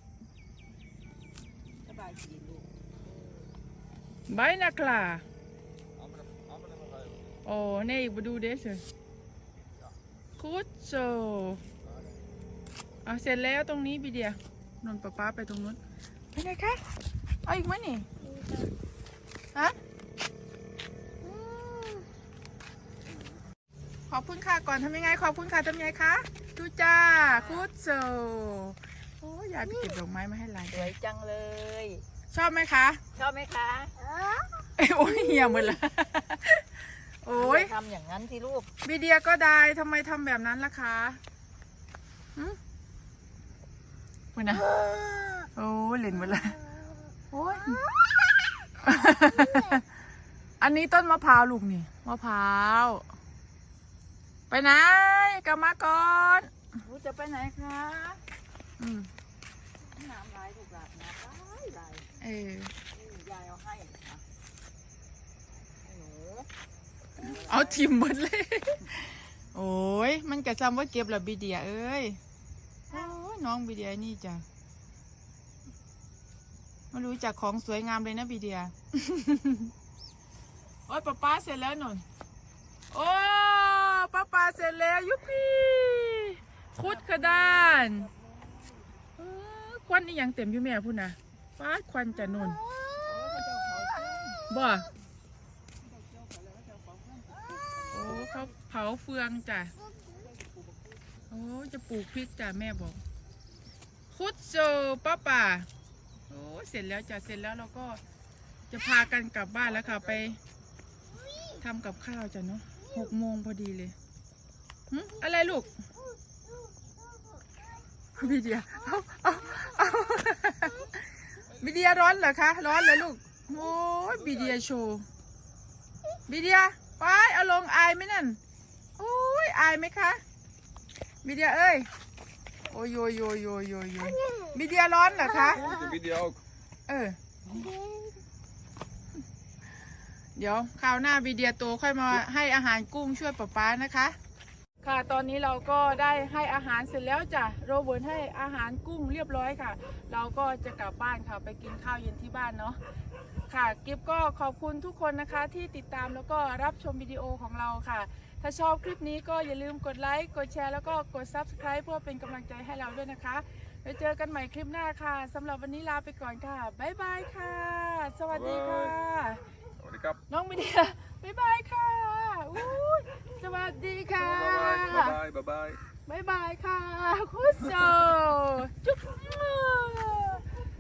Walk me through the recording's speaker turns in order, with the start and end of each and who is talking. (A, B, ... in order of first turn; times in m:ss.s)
0:01.8-0:03.4 A
0:04.3-0:05.2 B
0:06.0-0:07.4 C
0:07.4-0:08.8 B
0:10.4-0:11.6 B
0:11.8-0:12.2 C
0:13.0-0:15.8 B
0:16.3-0:16.8 B
0:17.5-0:18.1 B
0:18.2-0:18.7 A
0:21.2-0:22.1 B
0:24.1-0:30.9 B
0:27.3-0:27.7 A
0:30.7-0:32.0 A
0:32.3-0:33.0 B
0:33.2-0:34.7 A
0:34.8-0:37.7 B
0:37.3-0:38.7 A
0:38.8-0:41.2 B
0:44.3-0:44.6 B
0:44.5-0:45.5 A
0:45.6-0:46.6 B
0:46.2-0:48.3 A
0:47.3-0:47.8 B
0:48.8-0:49.8 B
0:49.3-0:49.8 A
0:50.6-0:53.0 B
0:54.5-0:56.5 B
0:56.8-0:58.2 A
0:58.8-0:59.1 B
0:59.8-1:02.1 A
1:02.2-1:02.7 B
1:02.9-1:04.2 A
1:05.8-1:06.5 A
1:07.2-1:07.8 A
1:07.2-1:12.2 B
1:12.9-1:14.4 B
1:16.9-1:19.7 B
1:20.9-1:22.0 B
1:22.9-1:28.1 B
1:26.8-1:28.9 A
1:29.2-1:32.6 B
1:32.9-1:34.4 A
1:34.5-1:34.9 B
1:35.8-1:38.5 A
1:37.9-1:39.7 B
1:40.0-1:41.0 A
1:41.3-1:43.0 B
1:44.1-1:45.7 B
1:46.3-1:48.0 B
1:48.7-1:50.4 B
1:49.6-1:50.4 C
1:51.6-1:54.0 B
1:54.9-1:55.7 B
1:58.2-2:01.0 B
2:01.6-2:02.2 C
2:01.6-2:05.1 B
2:04.2-2:04.6 C
2:06.3-2:08.4 B
2:09.0-2:10.2 B
2:11.2-2:11.9 B
2:12.7-2:15.6 B
2:15.4-2:16.4 C
2:16.9-2:17.7 B
2:20.4-2:24.2 B
2:24.8-2:32.8 B
2:33.5-2:49.4 B
2:48.3-2:49.0 C
2:49.8-2:50.2 C
2:50.3-2:55.2 B
2:54.2-2:55.8 C
2:56.1-3:00.4 B